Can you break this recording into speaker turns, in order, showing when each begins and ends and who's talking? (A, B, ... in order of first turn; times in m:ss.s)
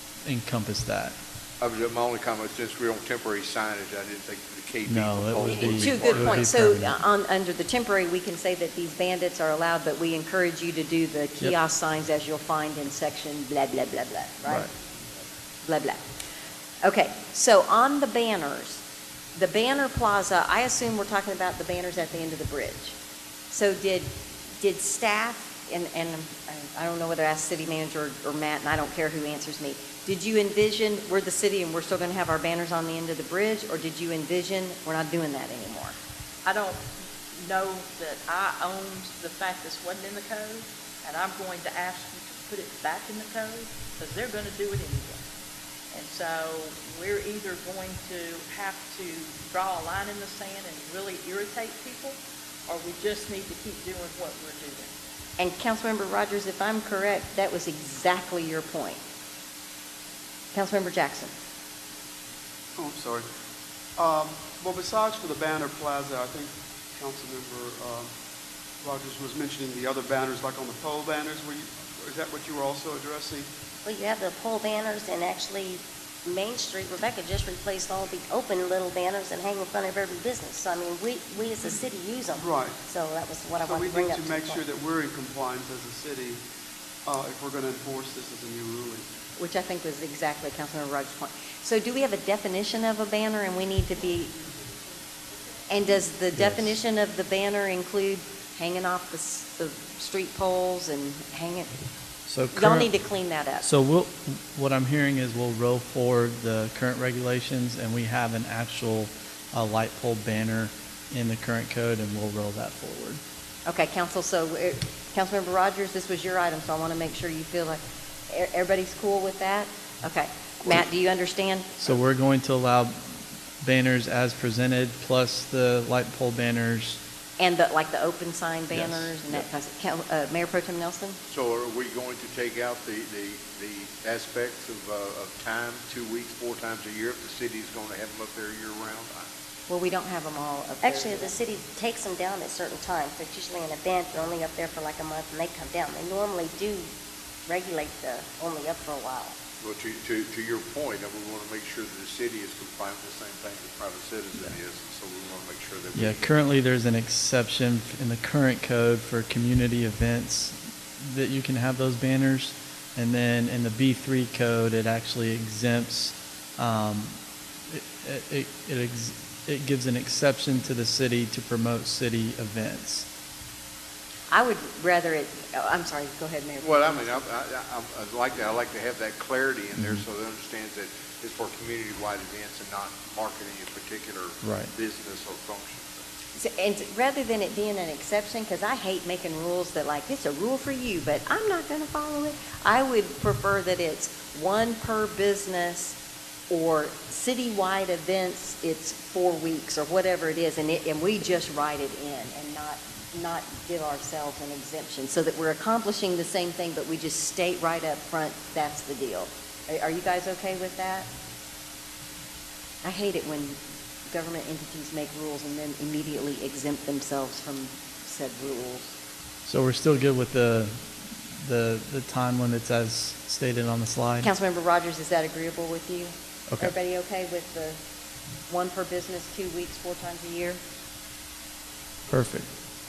0:00.2-0:01.2 A
0:01.6-0:06.4 B
0:04.9-0:07.0 A
0:05.5-0:14.7 C
0:15.6-0:16.1 C
0:16.8-0:18.8 C
0:19.3-0:23.0 C
0:23.5-0:36.0 C
0:36.4-0:36.8 D
0:37.4-0:45.2 D
0:45.9-0:54.9 D
0:55.4-0:59.0 C
1:00.5-1:01.3 C
1:02.8-1:03.3 E
1:04.0-1:08.1 E
1:08.8-1:13.5 E
1:13.8-1:24.6 F
1:22.3-1:22.8 E
1:23.6-1:26.4 E
1:27.0-1:29.1 E
1:29.4-1:34.3 C
1:35.7-1:41.7 C
1:36.4-1:36.7 A
1:42.3-1:42.9 A
1:42.5-1:43.7 C
1:43.6-1:53.2 A
1:53.7-2:01.8 C
2:01.8-2:07.0 A
2:07.4-2:11.2 C
2:08.7-2:09.5 A
2:11.3-2:19.3 B
2:19.7-2:21.4 C
2:20.8-2:26.9 F
2:27.5-2:29.4 F
2:29.6-2:36.4 B
2:35.9-2:47.2 A
2:47.7-2:53.1 A
2:54.3-2:57.2 C
2:56.6-3:06.0 B
2:59.8-3:00.0 A
3:04.4-3:04.7 A
3:06.4-3:16.0 C
3:16.5-3:31.1 C
3:32.8-3:33.6 C
3:34.1-3:39.0 C
3:39.4-3:44.3 A
3:44.2-3:47.8 C
3:48.5-3:50.6 C
3:52.1-3:52.5 A